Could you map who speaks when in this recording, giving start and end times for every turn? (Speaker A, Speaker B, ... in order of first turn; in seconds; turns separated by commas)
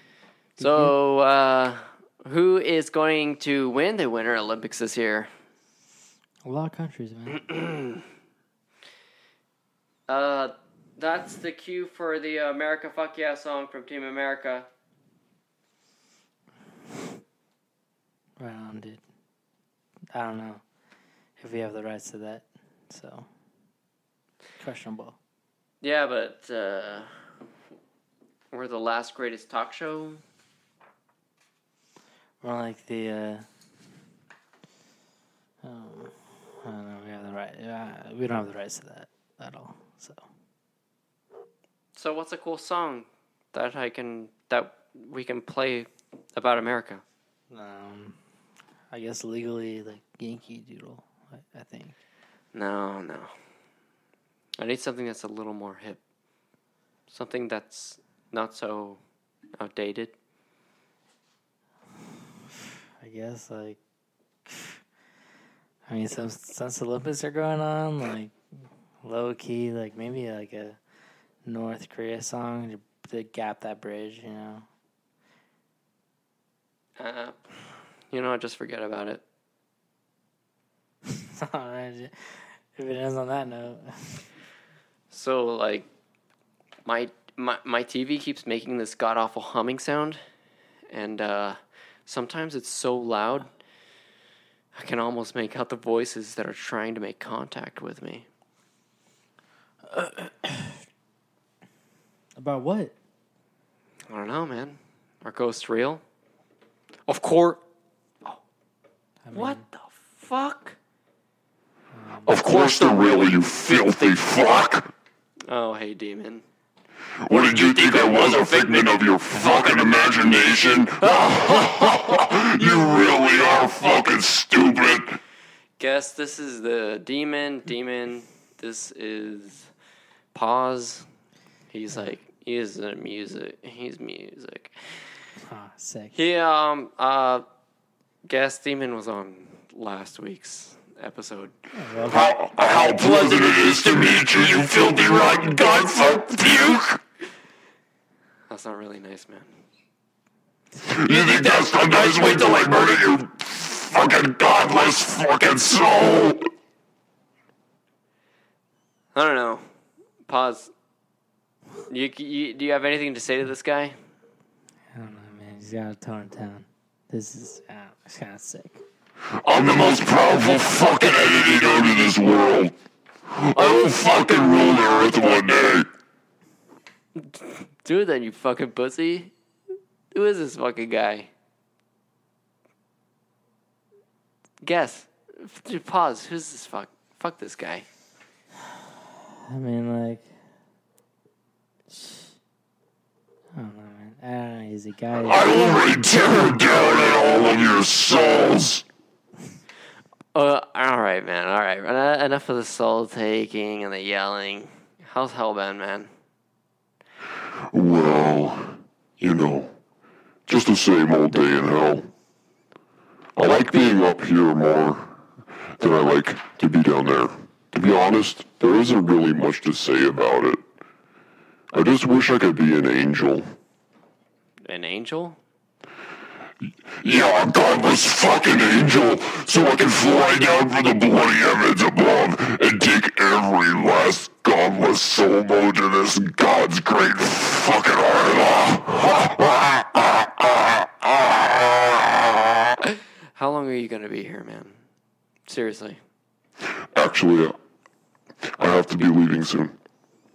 Speaker A: 0.6-5.3, Speaker B: 0.6-0.9, Speaker B: 6.5-7.4, Speaker A: 7.4-8.0, Speaker A: 10.1-14.7, Speaker B: 18.4-19.0, Speaker B: 20.1-20.6, Speaker B: 21.4-23.3, Speaker B: 24.6-25.2, Speaker A: 25.8-27.3, Speaker A: 28.5-30.2, Speaker B: 32.4-33.5, Speaker B: 35.6-40.2, Speaker A: 41.9-47.0, Speaker B: 47.5-48.2, Speaker B: 48.9-52.0, Speaker A: 52.5-53.4, Speaker A: 54.6-56.0, Speaker A: 57.1-59.0, Speaker A: 59.6-60.2, Speaker B: 63.0-63.8, Speaker B: 64.5-64.8, Speaker B: 65.9-68.3, Speaker B: 69.0-70.8, Speaker B: 71.5-74.7, Speaker A: 77.0-79.2, Speaker B: 81.1-84.2, Speaker A: 85.1-85.9, Speaker A: 86.8-90.2, Speaker A: 90.9-93.5, Speaker A: 94.7-98.3, Speaker B: 99.9-100.8, Speaker B: 102.4-102.9, Speaker A: 104.1-106.0, Speaker A: 107.1-107.6, Speaker B: 109.2-109.6, Speaker A: 109.3-110.8, Speaker B: 111.9-112.3, Speaker A: 112.3-114.2, Speaker C: 112.3-114.9, Speaker A: 115.5-116.5, Speaker C: 117.2-125.2, Speaker A: 117.3-119.7, Speaker A: 120.2-124.1, Speaker A: 125.8-129.7, Speaker A: 130.3-131.1, Speaker A: 131.7-135.3, Speaker B: 135.4-136.2, Speaker A: 136.1-137.4, Speaker A: 138.3-141.6, Speaker B: 141.7-142.3, Speaker C: 142.0-147.0, Speaker A: 142.6-145.7, Speaker A: 148.5-149.6, Speaker A: 150.9-153.2, Speaker C: 150.9-156.5, Speaker A: 159.1-159.7, Speaker A: 160.2-160.7, Speaker A: 161.9-164.0, Speaker B: 164.9-168.8, Speaker C: 169.4-172.7, Speaker C: 173.3-175.9, Speaker A: 173.5-175.1, Speaker A: 177.2-179.3, Speaker A: 180.1-181.3, Speaker A: 184.6-187.9, Speaker B: 189.5-190.3, Speaker B: 191.9-192.3, Speaker B: 193.5-195.5, Speaker C: 195.3-198.8, Speaker A: 200.3-206.1, Speaker C: 207.7-209.8, Speaker C: 210.5-212.1, Speaker C: 213.4-215.2, Speaker A: 213.4-214.0, Speaker C: 215.8-220.6, Speaker C: 221.7-223.6, Speaker A: 224.6-225.4, Speaker C: 227.0-242.5, Speaker A: 242.8-244.8, Speaker A: 245.5-246.0, Speaker C: 246.9-247.6, Speaker C: 248.6-249.7